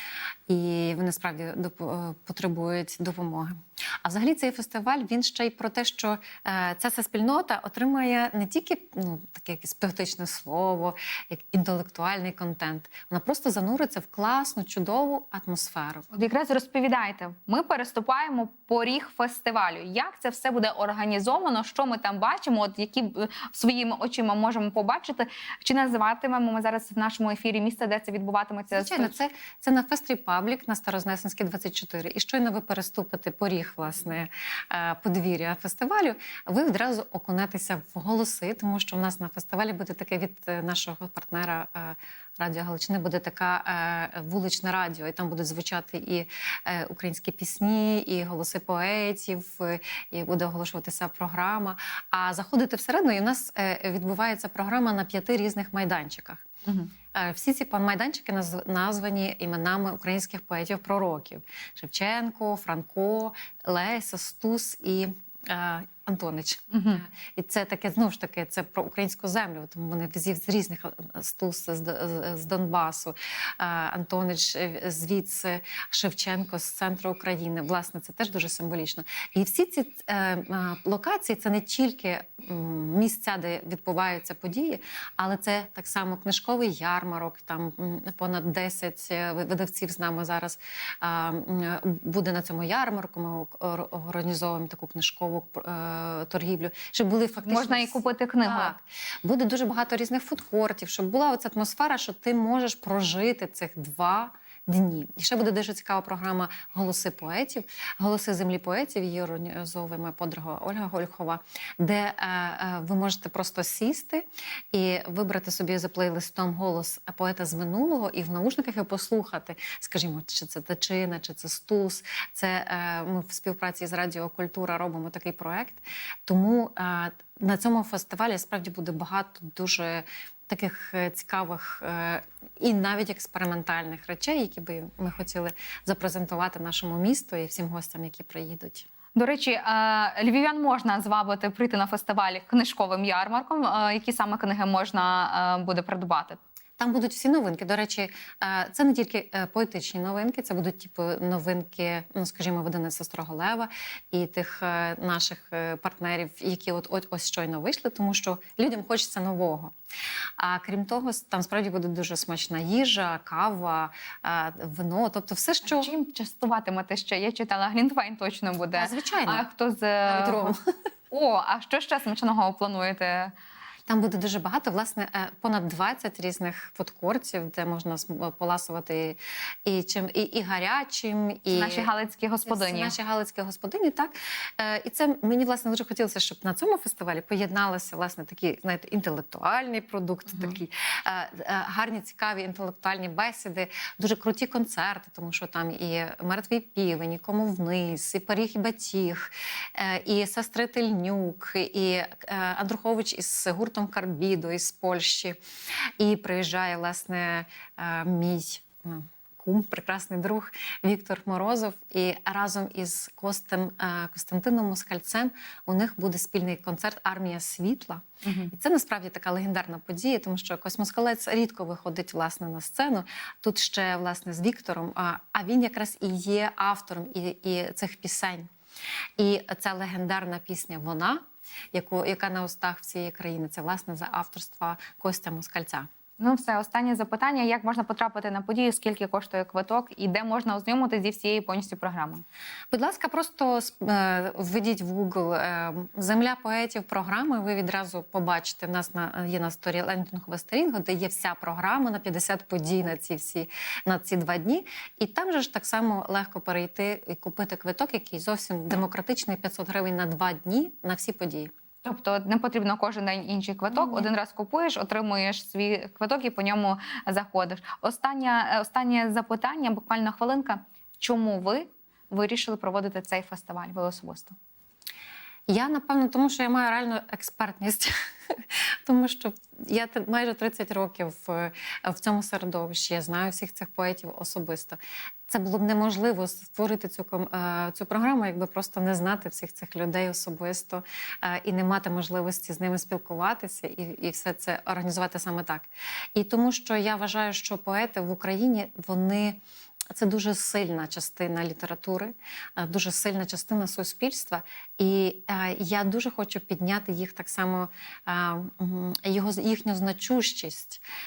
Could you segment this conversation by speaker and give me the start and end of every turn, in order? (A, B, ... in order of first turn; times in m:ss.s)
0:00.5-0:16.1 A
0:16.1-0:29.2 B
0:28.8-0:56.4 A
0:56.7-0:56.9 B
0:57.1-2:18.9 A
1:06.7-1:07.0 B
1:37.5-1:38.7 B
2:19.2-2:26.4 B
2:26.8-2:39.7 A
2:40.4-2:45.9 A
2:45.6-2:50.6 B
2:48.8-2:49.5 A
2:50.1-2:50.6 A
2:51.1-2:53.3 B
2:53.9-3:01.9 A
3:01.5-3:03.0 B
3:02.4-3:25.4 A
3:10.3-3:10.6 B
3:26.0-3:48.5 A
3:38.2-3:38.5 B
3:49.2-3:51.2 A
3:51.7-3:55.9 A
3:56.2-4:02.2 B
4:02.7-4:21.5 A
4:21.8-4:34.4 B
4:23.7-4:24.1 A
4:35.5-4:59.4 A
4:59.9-5:10.8 A